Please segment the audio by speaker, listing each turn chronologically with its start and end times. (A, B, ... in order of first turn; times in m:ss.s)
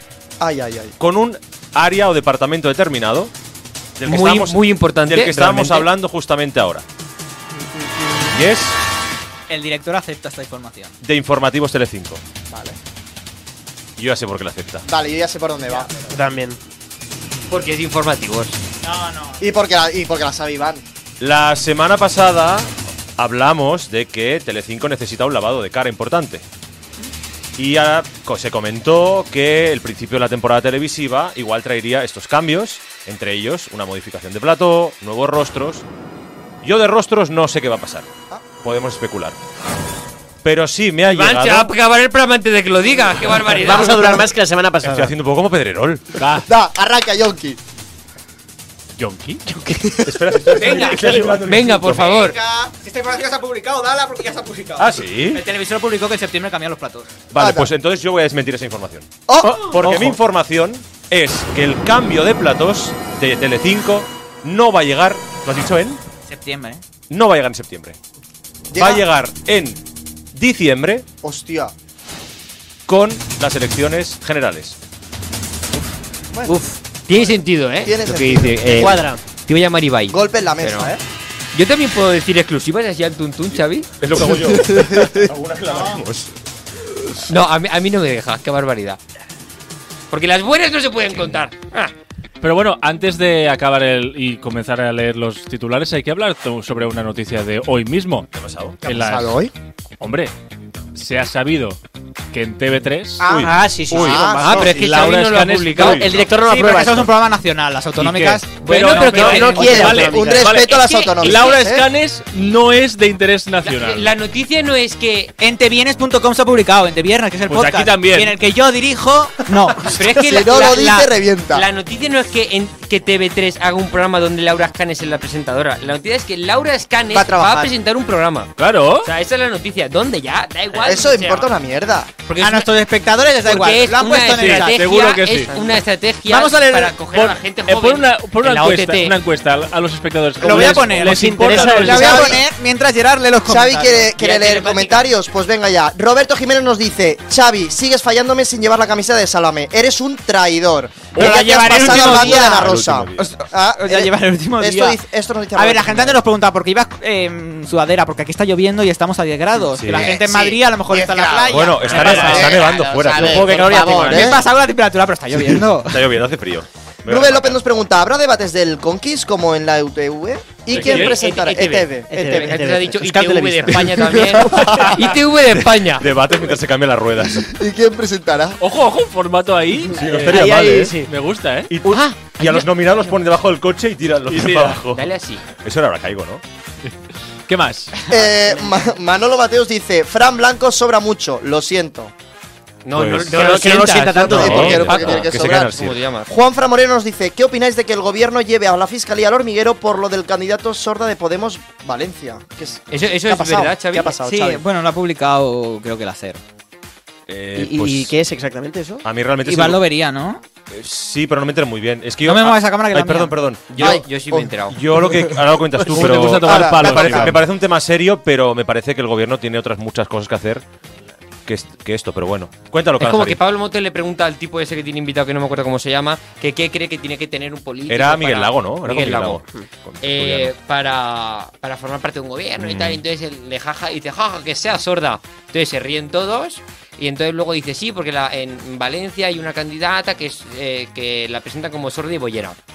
0:00.4-0:01.0 A
0:01.0-0:03.3 B
0:04.0-0:06.8 B
0:04.1-0:05.9 C
0:08.3-0:08.8 B
0:09.5-0:11.0 D
0:11.0-0:12.2 B
0:12.5-0:12.8 A
0:14.0-0:14.8 B
0:14.8-0:15.9 A
0:16.0-0:16.6 E
0:17.5-0:18.6 C
0:18.8-0:19.5 D
0:19.4-0:20.8 A
0:21.2-0:26.4 B
0:27.6-0:35.9 B
0:36.6-0:38.1 B
0:38.6-0:39.4 B
0:40.4-0:41.7 B
0:41.0-0:44.2 C
0:43.6-0:45.1 E
0:44.8-0:46.2 B
0:46.2-0:46.5 F
0:46.4-0:47.6 A
0:49.0-0:49.7 F
0:50.0-0:52.1 B
0:50.5-0:51.1 D
0:50.7-0:52.4 C
0:51.8-0:57.1 D
0:54.8-0:55.4 B
0:57.3-1:06.0 B
0:57.4-0:57.7 A
0:59.3-0:59.7 A
0:59.4-1:00.2 E
1:06.3-1:06.8 D
1:07.1-1:08.0 B
1:08.7-1:09.0 A
1:08.8-1:09.8 B
1:10.3-1:11.1 B
1:11.2-1:11.7 A
1:12.9-1:14.8 B
1:16.3-1:16.6 A
1:16.4-1:20.9 C
1:17.2-1:19.0 A
1:18.7-1:19.2 E
1:20.1-1:21.0 A
1:21.5-1:23.9 C
1:24.0-1:26.3 B
1:24.3-1:25.3 A
1:27.3-1:29.0 C
1:30.1-1:31.9 C
1:32.4-1:38.3 F
1:38.3-1:38.8 B
1:38.8-1:39.5 A
1:38.8-1:39.5 F
1:40.0-1:40.3 F
1:41.0-1:41.8 F
1:42.3-1:43.3 F
1:43.2-1:44.8 A
1:43.2-1:44.3 B
1:43.3-1:44.9 E
1:44.4-1:46.0 F
1:44.4-1:46.2 C
1:45.8-1:46.3 B
1:45.9-1:47.1 E
1:46.4-1:49.3 D
1:48.0-1:54.1 F
1:48.6-1:51.6 C
1:49.0-1:50.5 E
1:49.4-1:51.9 A
1:53.6-1:55.3 C
1:55.4-1:59.9 D
1:57.5-1:58.4 F
1:59.8-2:08.5 C
2:00.1-2:01.7 A
2:00.5-2:01.1 D
2:07.1-2:07.7 A
2:08.6-2:09.1 F
2:09.0-2:11.5 C
2:10.8-2:12.1 A
2:12.3-2:12.7 C
2:12.4-2:14.9 D
2:13.4-2:19.2 C
2:14.3-2:15.5 F
2:16.3-2:17.0 D
2:17.1-2:22.3 F
2:20.4-2:24.2 D
2:20.4-2:22.4 E
2:21.8-2:22.4 A
2:23.5-2:36.2 A
2:24.2-2:24.9 C
2:31.2-2:33.3 B
2:31.2-2:35.0 D
2:35.6-2:42.6 D
2:39.8-2:40.2 B
2:39.9-2:44.4 A
2:41.5-2:44.2 B
2:42.1-2:44.3 E
2:43.4-2:46.0 D
2:45.3-2:47.6 B
2:47.1-2:52.6 A
2:50.7-2:51.2 F
2:50.7-2:56.1 C
2:52.1-2:54.3 E
2:53.8-2:55.2 A
2:56.0-2:57.5 B
2:57.4-2:58.6 A
2:58.6-3:01.7 F
2:59.9-3:01.0 B
3:00.0-3:01.1 E
3:01.7-3:06.4 B
3:01.9-3:02.6 C
3:04.3-3:04.8 F
3:04.9-3:05.5 C
3:07.5-3:07.9 F
3:08.1-3:12.1 A
3:12.8-3:16.3 C
3:12.9-3:13.5 B
3:13.3-3:14.9 E
3:13.9-3:24.6 A
3:14.3-3:16.0 B
3:22.9-3:24.2 C
3:24.2-3:26.4 D
3:27.3-3:28.1 B
3:27.6-3:29.0 E
3:29.0-3:29.8 B
3:29.4-3:30.4 D
3:30.7-3:34.0 B
3:32.2-3:33.4 D
3:33.7-3:34.8 C
3:33.8-3:35.3 A
3:34.7-3:40.6 B
3:35.9-3:37.4 F
3:36.4-3:37.3 A
3:41.5-3:43.4 B
3:43.0-3:49.4 C
3:47.9-3:50.5 B
3:50.0-4:02.6 C
3:52.6-3:53.0 B